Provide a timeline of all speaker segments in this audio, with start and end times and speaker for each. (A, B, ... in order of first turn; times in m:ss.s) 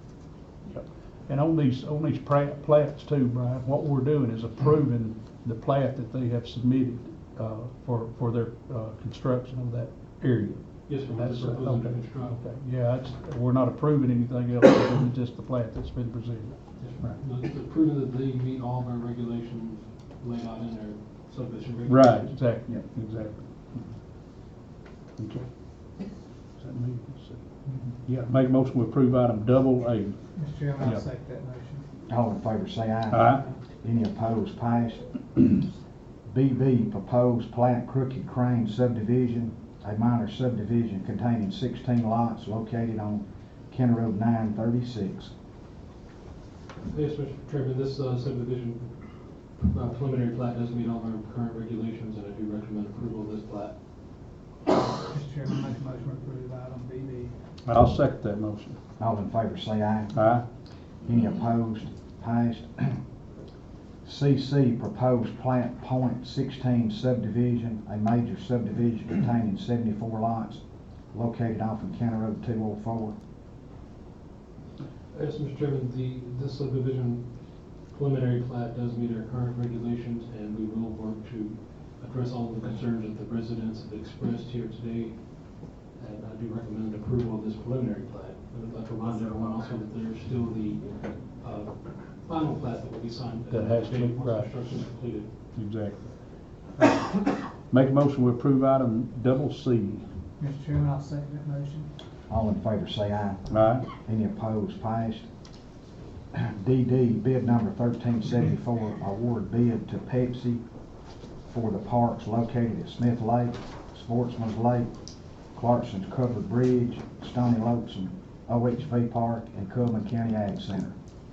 0:00.7-0:17.2 A
0:10.9-0:12.4 B
0:16.8-0:22.4 B
0:21.9-0:23.9 A
0:25.1-0:25.5 A
0:26.6-0:27.4 A
0:27.6-0:28.0 C
0:28.0-0:30.2 A
0:30.3-0:31.8 C
0:32.1-0:35.7 D
0:33.1-0:33.4 A
0:36.3-0:45.3 D
0:46.8-0:53.8 B
0:55.0-0:57.3 C
0:57.6-0:58.8 A
0:59.0-1:00.2 D
1:00.2-1:00.4 A
1:01.0-1:03.0 D
1:04.0-1:13.1 D
1:15.1-1:17.3 B
1:17.8-1:35.3 B
1:33.5-1:34.5 A
1:35.5-1:36.2 A
1:36.8-1:40.0 A
1:40.4-1:41.9 C
1:42.3-1:45.3 D
1:43.5-1:43.9 A
1:46.3-1:50.6 D
1:51.5-1:54.9 D
1:55.5-2:00.9 D